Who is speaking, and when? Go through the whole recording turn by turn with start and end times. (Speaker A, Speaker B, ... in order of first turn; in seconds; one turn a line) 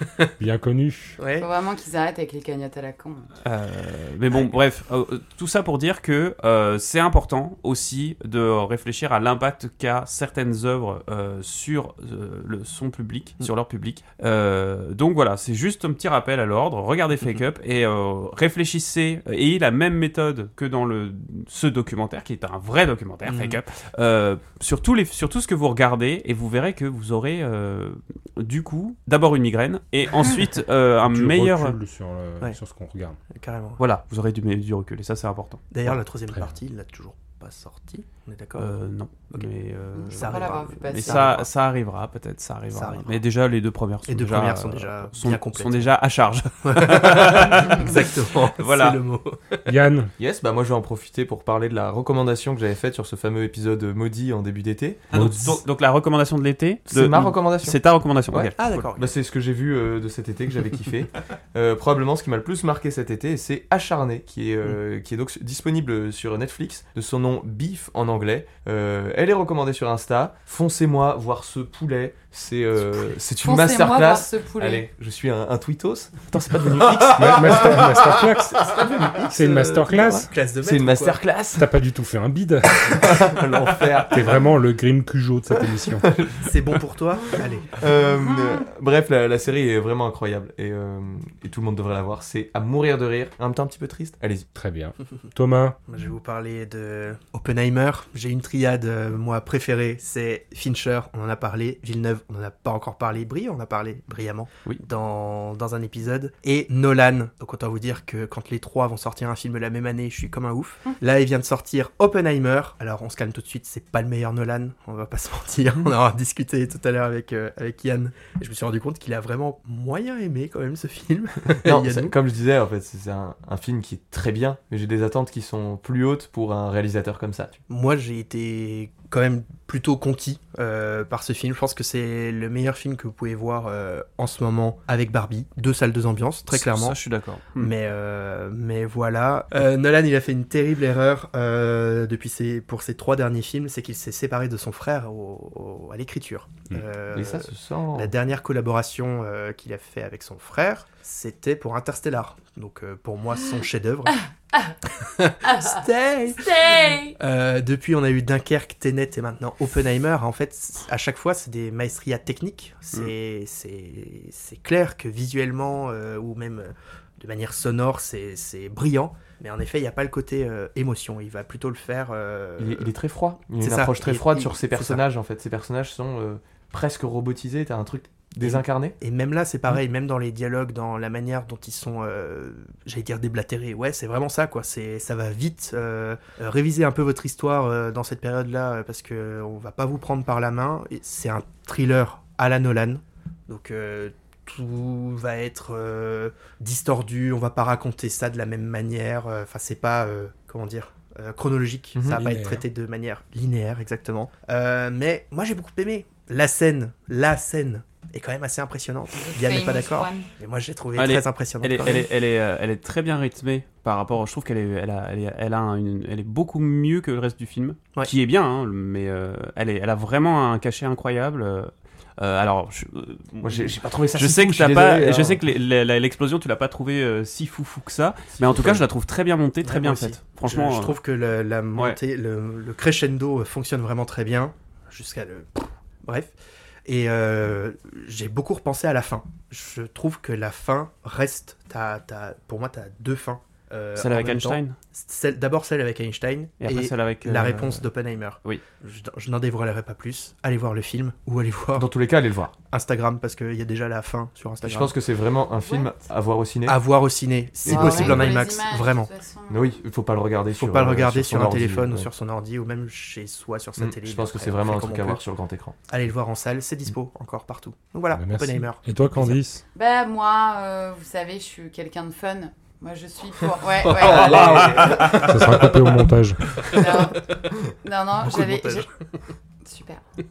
Speaker A: 0.4-1.2
Speaker B: 1.2-1.5
Speaker C: 1.4-3.3
Speaker D: 3.4-31.8
Speaker B: 23.3-23.6
Speaker A: 31.0-33.2
Speaker B: 33.3-33.8
Speaker D: 33.8-35.8
Speaker B: 35.7-38.7
Speaker D: 38.6-49.0
Speaker C: 39.9-41.4
Speaker B: 40.1-41.5
Speaker B: 42.7-43.1
Speaker B: 44.1-45.9
Speaker B: 46.6-49.6
Speaker A: 49.7-50.1
Speaker E: 50.2-55.1
Speaker D: 55.1-58.8
Speaker A: 55.1-55.6
Speaker E: 56.9-57.8
Speaker E: 58.3-81.7
Speaker B: 58.5-59.1
Speaker C: 73.4-74.8
Speaker D: 76.3-77.7
Speaker A: 77.1-80.3
Speaker B: 80.3-81.2
Speaker A: 81.5-83.3
Speaker E: 82.8-84.5
Speaker A: 84.1-86.0
Speaker E: 85.6-86.5
Speaker B: 86.4-87.8
Speaker E: 87.3-94.5
Speaker A: 94.5-95.8
Speaker B: 95.9-122.1
Speaker E: 121.6-127.6
Speaker B: 127.7-137.0
Speaker D: 136.5-137.7
Speaker B: 137.5-154.2
Speaker E: 147.1-148.1
Speaker B: 155.0-172.9
Speaker C: 155.4-155.8
Speaker C: 156.4-157.1
Speaker E: 172.6-178.9
Speaker B: 173.6-175.0
Speaker B: 178.4-212.1
Speaker E: 201.9-202.3
Speaker A: 202.1-202.6
Speaker C: 209.1-210.3
Speaker D: 210.9-230.9
Speaker E: 223.4-225.4
Speaker B: 228.4-228.8
Speaker B: 229.6-236.3
Speaker B: 236.8-251.9
Speaker D: 243.9-244.8
Speaker D: 246.6-247.9
Speaker E: 251.7-252.5
Speaker B: 252.7-254.9
Speaker E: 254.6-256.8
Speaker C: 255.6-256.0
Speaker B: 256.6-259.1
Speaker E: 257.6-258.4
Speaker C: 257.6-259.8
Speaker E: 259.5-262.1
Speaker B: 260.6-265.2
Speaker E: 263.8-265.8
Speaker B: 265.9-269.3
Speaker A: 268.1-269.6
Speaker C: 269.7-274.8
Speaker E: 273.8-275.3
Speaker B: 273.9-275.2
Speaker A: 274.9-276.6
Speaker C: 276.7-278.9
Speaker B: 278.2-278.9
Speaker C: 279.6-280.0